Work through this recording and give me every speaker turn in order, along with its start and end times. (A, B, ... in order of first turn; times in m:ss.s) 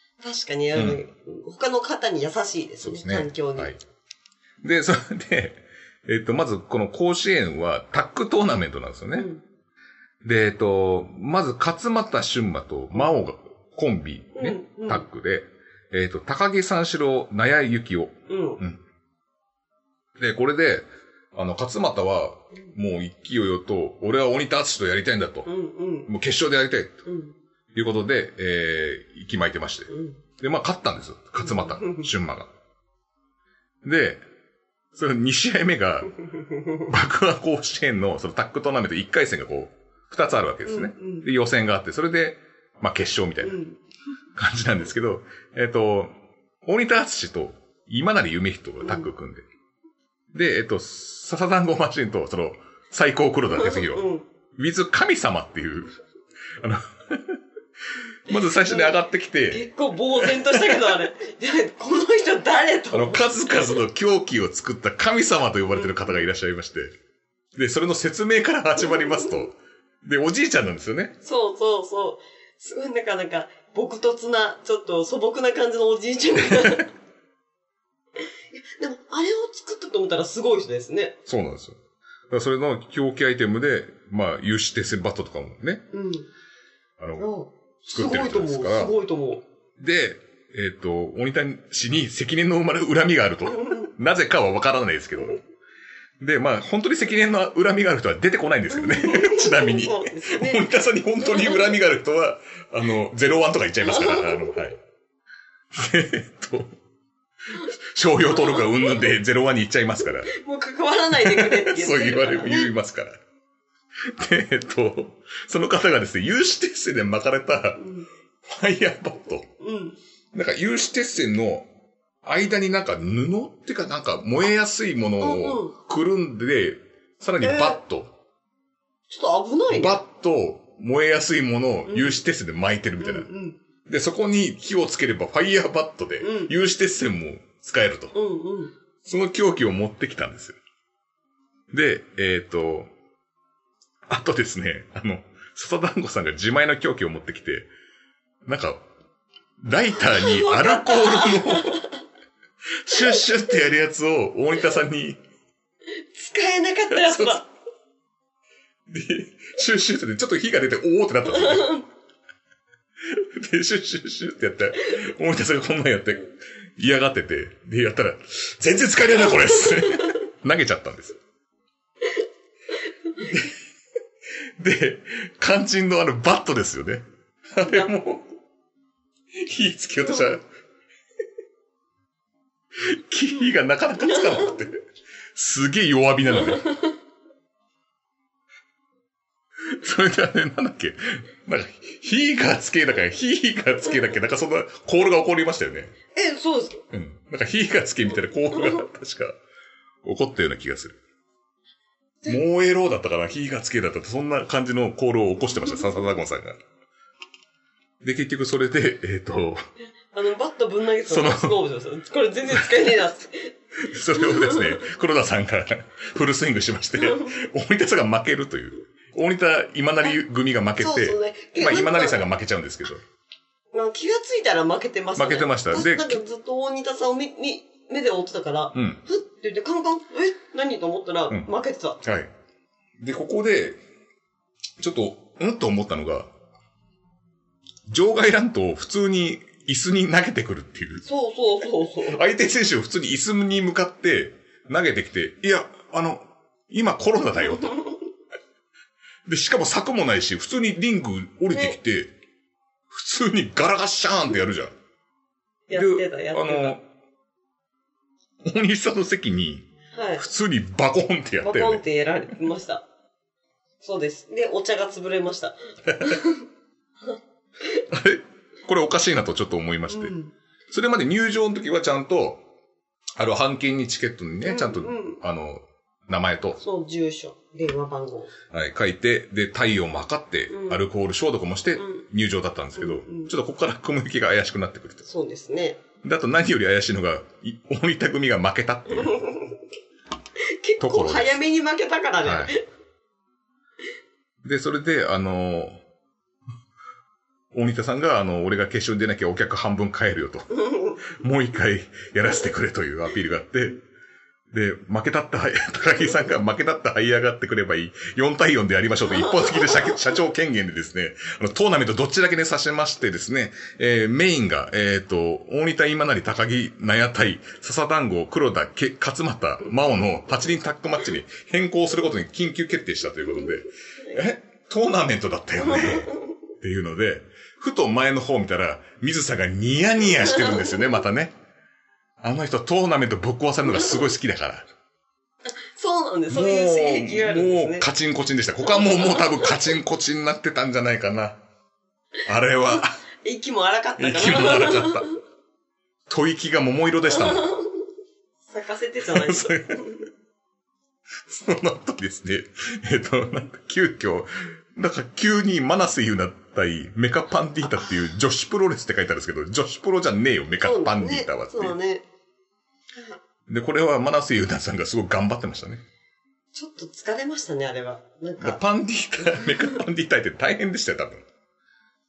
0:00.2-0:03.7 A
0:00.7-0:01.0 B
0:02.8-0:03.8 B
0:04.6-0:09.3 B
0:09.1-0:09.4 A
0:10.2-0:18.8 B
0:14.4-0:15.0 A
0:18.3-0:18.6 A
0:20.2-0:25.5 B
0:25.4-0:26.1 A
0:26.1-0:27.0 B
0:27.0-0:27.4 A
0:27.7-0:32.5 B
0:29.9-0:30.2 A
0:31.4-0:32.1 A
0:33.8-0:34.2 B
0:34.9-0:36.1 B
0:36.8-0:43.6 B
0:40.6-0:41.3 A
0:43.4-0:43.8 A
0:44.4-0:49.4 B
0:48.8-0:49.1 A
0:50.3-0:54.0 B
0:53.5-0:54.3 A
0:54.6-0:55.9 B
0:56.6-0:57.4 B
0:58.3-0:59.7 B
0:58.6-0:58.9 A
0:59.5-1:03.8 A
1:00.2-1:00.9 B
1:02.9-1:06.9 B
1:05.7-1:06.2 A
1:07.5-1:11.2 B
1:08.9-1:09.3 A
1:11.2-1:16.9 A
1:16.5-1:16.8 B
1:18.5-1:21.2 A
1:21.2-1:21.8 B
1:22.3-1:25.8 B
1:25.9-1:26.3 A
1:27.0-1:27.3 B
1:27.2-1:29.4 A
1:27.9-1:28.9 B
1:29.8-1:35.4 B
1:33.5-1:33.9 A
1:36.2-1:44.8 B
1:38.7-1:40.6 A
1:41.2-1:41.7 A
1:43.9-1:44.5 A
1:45.7-1:46.7 B
1:47.5-1:50.3 B
1:48.4-1:48.7 A
1:50.3-1:52.7 A
1:51.2-1:53.2 B
1:54.0-1:57.9 B
1:57.8-1:58.1 A
1:58.4-1:59.4 B
1:59.6-2:00.0 A
2:00.3-2:01.7 B
2:02.2-2:08.1 B
2:05.2-2:05.7 A
2:07.4-2:07.8 A
2:09.1-2:10.0 A
2:09.7-2:13.3 B
2:11.9-2:12.2 A
2:13.0-2:13.6 A
2:13.9-2:18.1 B
2:16.2-2:16.5 A
2:18.1-2:18.7 A
2:19.0-2:20.6 B
2:21.7-2:22.9 B
2:24.1-2:27.7 B
2:28.4-2:28.8 B
2:29.6-2:31.8 B
2:30.1-2:31.9 A
2:32.8-2:35.2 B
2:36.1-2:37.5 A
2:36.9-2:37.4 B
2:38.9-2:41.8 B
2:41.4-2:41.8 A
2:43.0-2:51.2 B
2:53.3-2:53.5 B
2:54.6-2:58.3 B
2:59.3-3:00.4 B
3:02.8-3:04.8 B
3:05.3-3:06.7 B
3:09.6-3:15.9 B
3:16.1-3:16.8 A
3:16.9-3:19.4 B
3:20.0-3:21.0 B
3:22.2-3:26.6 B
3:28.0-3:29.6 B
3:30.1-3:33.5 A
3:31.1-3:31.6 B
3:33.8-3:43.0 B
3:34.1-3:34.8 A
3:37.0-3:37.3 A
3:40.8-3:42.2 A
3:43.7-3:52.0 A
3:45.2-3:46.2 B
3:48.7-3:49.0 B
3:52.0-3:52.3 B
3:53.0-3:53.8 B
3:54.8-3:56.3 B
3:57.9-4:01.0 B
4:01.0-4:02.2 A
4:02.1-4:07.8 B
4:09.2-4:12.1 B
4:12.9-4:14.7 B
4:15.7-4:16.8 A
4:15.7-4:16.8 B
4:18.4-4:21.8 B
4:19.9-4:20.2 A
4:21.4-4:22.8 A
4:23.8-4:26.4 A
4:25.9-4:26.2 B
4:27.9-4:30.1 B
4:29.9-4:30.3 A
4:30.7-4:32.4 B
4:33.2-4:36.6 B
4:34.4-4:35.2 A
4:36.6-4:38.3 A
4:38.5-4:45.0 B
4:40.5-4:40.8 A
4:41.8-4:42.0 A
4:42.8-4:43.3 A
4:45.0-4:45.8 A
4:46.0-4:49.2 B
4:49.0-4:49.5 A
4:50.6-4:52.6 A
4:50.8-4:51.4 B
4:52.2-4:52.5 B
4:54.4-4:55.8 B
4:57.5-5:00.5 B
5:00.6-5:01.0 A
5:01.0-5:03.8 B
5:04.5-5:31.3 B
5:09.2-5:10.0 A
5:25.6-5:26.3 A
5:30.3-5:30.7 A
5:32.2-5:34.6 B
5:35.7-5:37.9 A
5:36.3-5:41.4 B
5:38.7-5:39.5 A
5:42.2-5:43.0 B
5:43.2-5:45.1 A
5:44.0-5:45.1 B
5:46.1-5:47.5 B
5:47.1-5:47.6 A
5:48.5-5:50.0 A
5:49.1-5:49.8 B
5:51.2-6:01.8 B
6:00.6-6:02.0 A
6:03.5-6:05.8 B
6:06.5-6:08.6 A
6:08.4-6:11.2 B
6:09.2-6:09.7 A